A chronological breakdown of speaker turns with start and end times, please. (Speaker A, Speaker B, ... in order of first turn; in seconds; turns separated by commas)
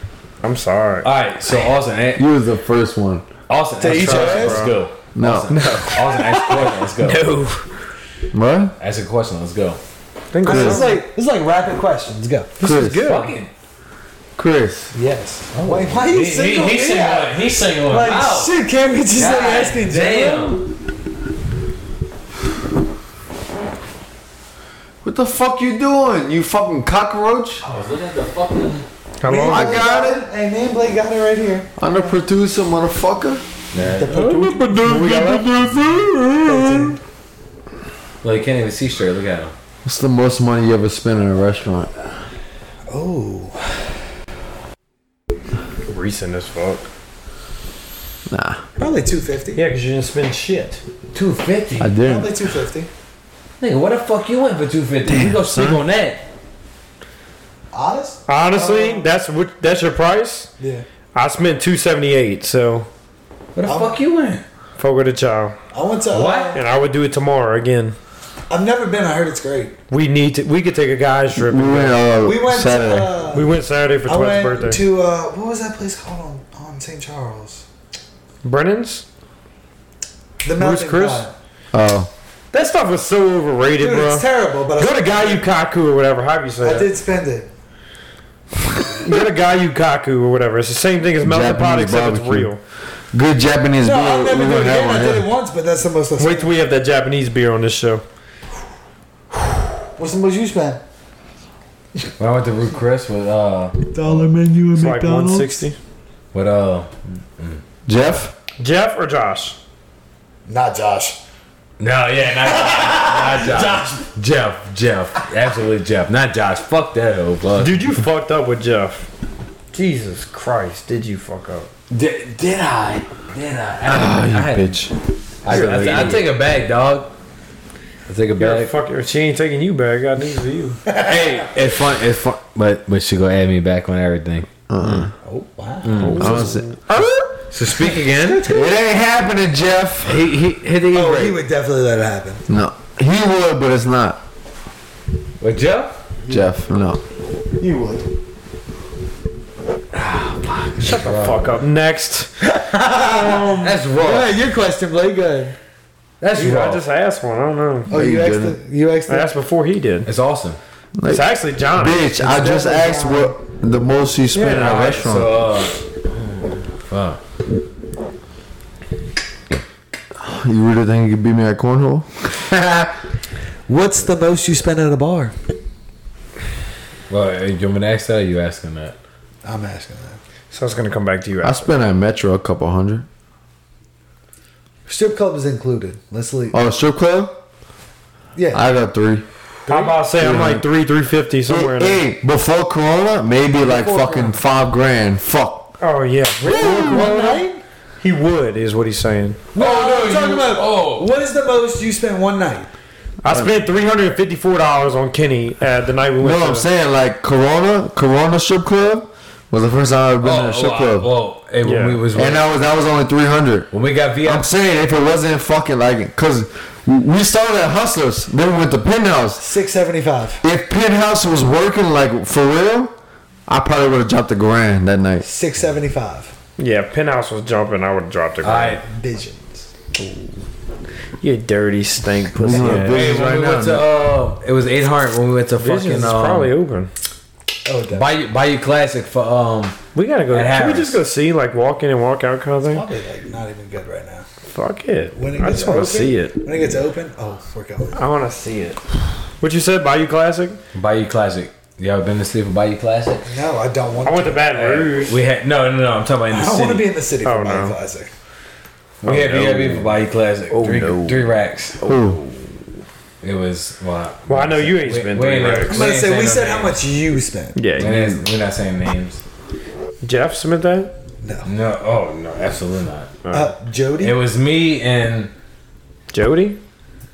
Speaker A: 0.4-1.1, Speaker B: 1.0-2.2, Speaker C: 2.1-3.2, Speaker B: 3.5-7.3, Speaker D: 3.8-4.7, Speaker A: 3.9-4.8, Speaker C: 5.1-5.7, Speaker A: 5.5-7.7, Speaker C: 8.3-8.7, Speaker B: 8.8-9.8, Speaker A: 10.3-11.0, Speaker D: 10.4-12.5, Speaker C: 10.4-10.8, Speaker A: 12.6-13.3, Speaker C: 12.6-13.0, Speaker B: 13.0-13.5, Speaker C: 14.4-14.9, Speaker D: 14.9-20.6, Speaker B: 15.5-18.5, Speaker B: 19.1-20.6, Speaker C: 25.0-27.6, Speaker B: 27.6-28.8, Speaker A: 29.2-29.9, Speaker D: 29.2-31.7, Speaker C: 29.3-30.2, Speaker C: 31.8-33.4, Speaker B: 33.7-34.4, Speaker D: 33.8-34.6, Speaker A: 34.1-35.5, Speaker C: 34.3-37.0, Speaker D: 36.4-37.0, Speaker B: 38.2-39.5, Speaker C: 39.8-41.9, Speaker D: 42.9-43.7, Speaker A: 45.9-46.9, Speaker C: 48.3-48.6, Speaker D: 48.8-49.6, Speaker A: 49.5-50.8, Speaker B: 51.1-51.9, Speaker C: 51.8-52.3, Speaker D: 52.0-52.9, Speaker B: 53.6-56.2, Speaker C: 55.0-55.8, Speaker D: 57.7-59.1, Speaker A: 58.3-60.5, Speaker D: 60.6-60.8, Speaker A: 61.1-62.9, Speaker B: 63.5-64.4, Speaker D: 63.6-64.0, Speaker A: 64.8-65.5, Speaker D: 65.7-66.6, Speaker B: 66.1-66.5, Speaker A: 66.5-68.0, Speaker D: 68.5-69.7, Speaker A: 69.9-72.0, Speaker C: 71.3-73.1, Speaker D: 72.2-77.6, Speaker A: 73.3-74.8, Speaker A: 78.4-79.0, Speaker D: 80.4-81.3, Speaker A: 80.6-81.2, Speaker C: 81.7-82.1, Speaker A: 82.5-86.9, Speaker D: 83.8-85.5, Speaker D: 86.6-87.5, Speaker A: 89.0-92.6, Speaker C: 91.2-92.5, Speaker C: 93.1-95.3, Speaker D: 93.8-96.5, Speaker A: 96.2-98.0, Speaker D: 100.0-100.8, Speaker B: 102.2-104.0, Speaker D: 103.9-105.6, Speaker A: 104.7-105.8, Speaker B: 106.3-107.6, Speaker C: 107.9-108.3, Speaker A: 108.6-109.6, Speaker D: 110.5-111.2, Speaker B: 111.8-118.0, Speaker D: 112.4-114.0, Speaker A: 117.6-119.1, Speaker A: 119.7-121.7, Speaker B: 121.9-124.8, Speaker C: 123.8-124.9, Speaker B: 125.4-127.1, Speaker C: 125.5-126.2, Speaker D: 125.5-126.2, Speaker A: 125.7-126.2, Speaker B: 128.1-128.7, Speaker A: 128.4-130.8, Speaker D: 130.8-131.5, Speaker B: 131.0-134.5, Speaker C: 134.7-135.1, Speaker D: 135.2-136.4, Speaker B: 135.8-136.4, Speaker C: 136.0-136.7, Speaker A: 136.0-137.2, Speaker B: 137.5-138.5, Speaker D: 137.9-138.7, Speaker C: 138.4-140.2, Speaker B: 140.0-141.4, Speaker D: 140.9-142.4, Speaker C: 142.5-144.2, Speaker B: 145.4-145.9, Speaker C: 146.3-147.0, Speaker D: 147.6-148.1, Speaker B: 149.9-151.6, Speaker A: 150.8-152.3, Speaker D: 152.4-155.6, Speaker A: 153.0-153.8, Speaker B: 153.4-154.3, Speaker B: 156.2-156.8, Speaker A: 156.3-157.9, Speaker D: 157.9-159.3, Speaker C: 157.9-158.6, Speaker A: 159.1-160.1, Speaker B: 160.1-160.6, Speaker C: 161.0-165.4, Speaker A: 161.1-162.2, Speaker D: 162.2-163.4, Speaker A: 164.3-165.1, Speaker B: 164.6-165.8, Speaker B: 166.9-167.2, Speaker C: 170.2-172.1, Speaker D: 173.7-175.3, Speaker B: 177.1-178.9, Speaker D: 179.4-180.2, Speaker A: 180.5-181.7, Speaker C: 181.4-183.1, Speaker D: 184.9-186.6, Speaker C: 186.5-187.3, Speaker D: 188.3-188.6, Speaker C: 188.5-189.2, Speaker A: 189.7-192.0, Speaker C: 190.2-190.7, Speaker C: 191.5-195.7, Speaker D: 193.5-194.4, Speaker A: 195.8-197.4, Speaker D: 196.4-197.6, Speaker A: 198.0-199.4, Speaker D: 199.5-202.7, Speaker B: 199.5-201.1, Speaker A: 203.2-206.7, Speaker C: 203.2-203.5, Speaker C: 206.2-211.1, Speaker B: 210.2-212.4, Speaker A: 211.6-212.0, Speaker C: 212.1-213.7, Speaker B: 213.7-214.5, Speaker C: 214.2-219.4, Speaker D: 219.4-220.4, Speaker C: 220.4-222.9, Speaker C: 223.5-225.2, Speaker D: 225.2-226.3, Speaker A: 226.6-228.8, Speaker B: 228.4-228.8, Speaker D: 228.8-229.7, Speaker A: 230.0-230.3, Speaker A: 231.2-233.2, Speaker C: 232.3-233.9, Speaker B: 232.5-236.5, Speaker A: 235.6-236.9, Speaker D: 237.6-238.1, Speaker B: 237.9-239.8, Speaker A: 239.9-242.8, Speaker B: 240.3-241.0, Speaker D: 242.6-244.2, Speaker A: 244.5-246.4, Speaker D: 245.2-248.0, Speaker A: 247.9-248.8, Speaker A: 249.4-250.6, Speaker B: 250.7-253.3, Speaker D: 253.2-254.5, Speaker A: 254.0-255.2, Speaker B: 254.5-256.9, Speaker D: 256.3-258.1, Speaker A: 257.2-257.8, Speaker A: 259.0-259.9, Speaker B: 259.0-261.8, Speaker A: 260.5-261.3, Speaker C: 261.8-262.2, Speaker A: 261.9-262.4, Speaker B: 263.2-266.8, Speaker A: 264.3-265.9, Speaker D: 265.7-268.0, Speaker A: 267.5-267.9, Speaker B: 267.8-269.2, Speaker A: 270.0-270.9, Speaker D: 271.2-271.5, Speaker B: 271.4-273.2, Speaker A: 273.2-273.5, Speaker D: 273.3-274.2, Speaker B: 274.0-275.3, Speaker A: 276.1-276.6